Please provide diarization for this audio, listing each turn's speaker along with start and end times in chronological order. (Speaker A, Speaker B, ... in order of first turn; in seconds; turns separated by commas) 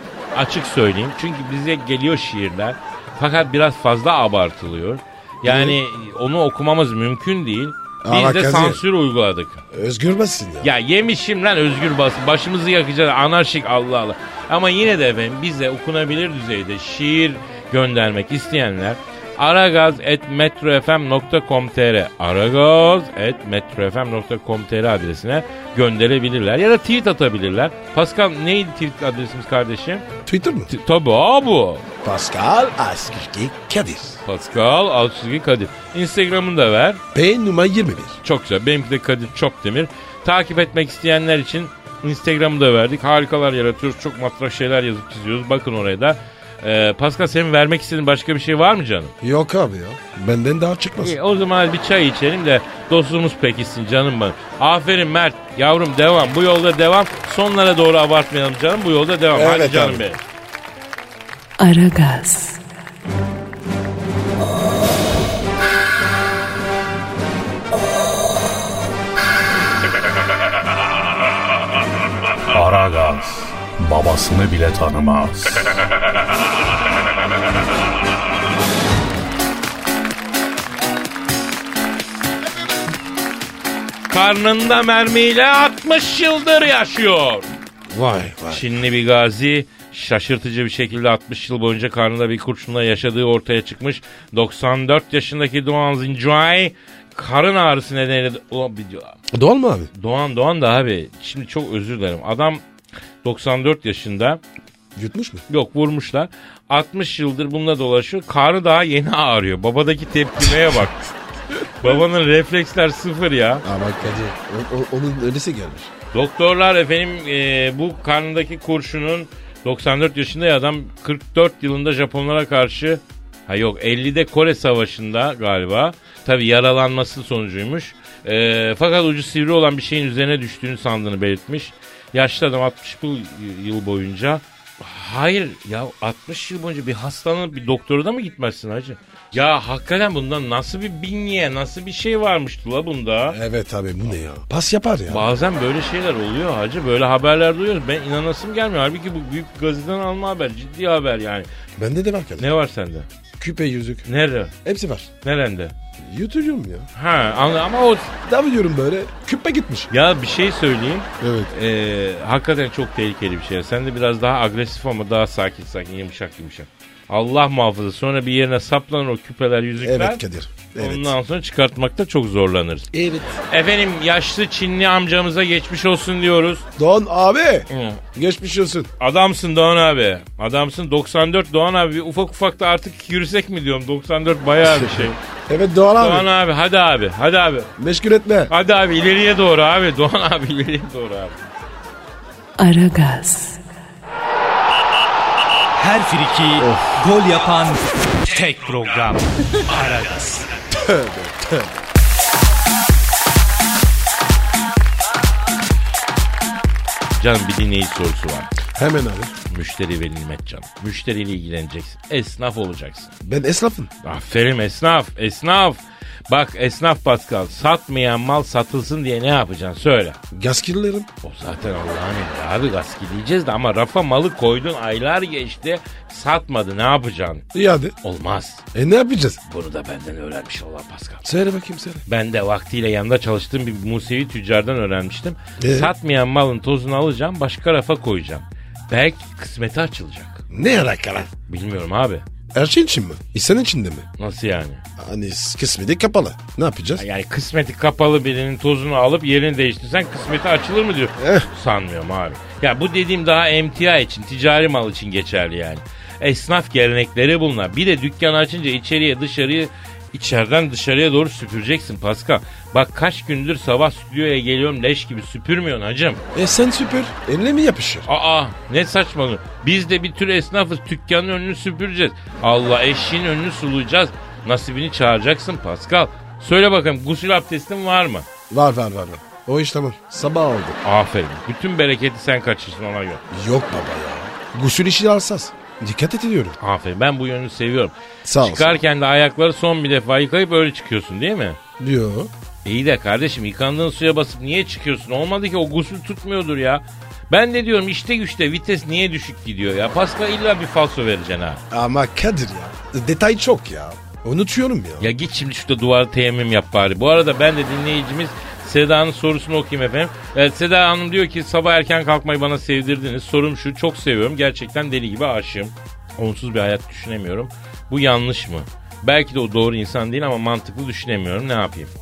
Speaker A: 0.3-9.6, Speaker B: 5.4-5.8, Speaker B: 8.0-8.8, Speaker B: 9.7-10.7, Speaker A: 10.6-30.0, Speaker B: 30.2-30.7, Speaker A: 30.7-31.8, Speaker B: 32.0-34.2, Speaker A: 34.2-37.0, Speaker B: 37.1-38.2, Speaker A: 38.2-49.1, Speaker B: 49.2-51.1, Speaker A: 51.0-60.2, Speaker B: 59.3-60.0, Speaker C: 61.6-62.6, Speaker D: 72.5-75.6, Speaker A: 84.1-87.5, Speaker B: 87.9-88.7, Speaker A: 88.5-99.2, Speaker B: 99.3-99.9, Speaker A: 99.9-102.6, Speaker A: 103.2-104.4, Speaker B: 105.0-105.4, Speaker A: 105.5-111.1, Speaker A: 111.8-113.6, Speaker B: 113.6-115.9, Speaker A: 116.1-143.4, Speaker B: 143.3-145.3, Speaker A: 145.1-151.5, Speaker B: 151.8-152.5, Speaker A: 152.4-153.1, Speaker B: 153.4-154.1, Speaker A: 154.1-154.5, Speaker B: 154.6-155.1, Speaker A: 155.2-155.7, Speaker B: 156.0-156.9, Speaker A: 156.9-158.1, Speaker B: 158.2-159.9, Speaker A: 159.9-170.2, Speaker B: 161.2-161.5, Speaker B: 169.8-171.1, Speaker A: 170.8-172.9, Speaker B: 172.9-173.3, Speaker A: 173.5-176.6, Speaker B: 176.8-178.9, Speaker A: 177.7-178.0, Speaker A: 179.0-185.2, Speaker B: 184.6-186.3, Speaker A: 186.0-187.7, Speaker B: 187.8-188.5, Speaker A: 188.5-191.4, Speaker C: 192.6-193.6, Speaker E: 195.8-200.5, Speaker B: 196.6-197.0, Speaker B: 200.7-201.8, Speaker A: 207.2-208.5, Speaker B: 208.7-209.3, Speaker A: 209.5-213.1, Speaker B: 213.2-213.9, Speaker A: 214.0-220.2, Speaker B: 220.3-221.1, Speaker A: 221.2-227.4, Speaker B: 227.5-227.9, Speaker A: 228.0-228.6, Speaker B: 228.7-229.4, Speaker A: 229.5-231.2, Speaker B: 231.2-232.0, Speaker A: 232.1-240.4, Speaker B: 235.6-235.9, Speaker B: 240.5-241.3, Speaker A: 241.5-242.2, Speaker B: 242.5-244.1, Speaker A: 244.2-244.8, Speaker B: 245.0-247.0, Speaker A: 247.0-266.2, Speaker B: 251.2-251.5, Speaker B: 266.3-268.1, Speaker A: 268.1-278.3, Speaker B: 278.5-280.8, Speaker A: 280.8-283.2, Speaker B: 283.3-286.6, Speaker A: 286.6-291.6, Speaker B: 288.2-288.8, Speaker B: 291.8-292.3, Speaker A: 292.6-301.6, Speaker B: 301.7-305.1, Speaker A: 305.0-321.9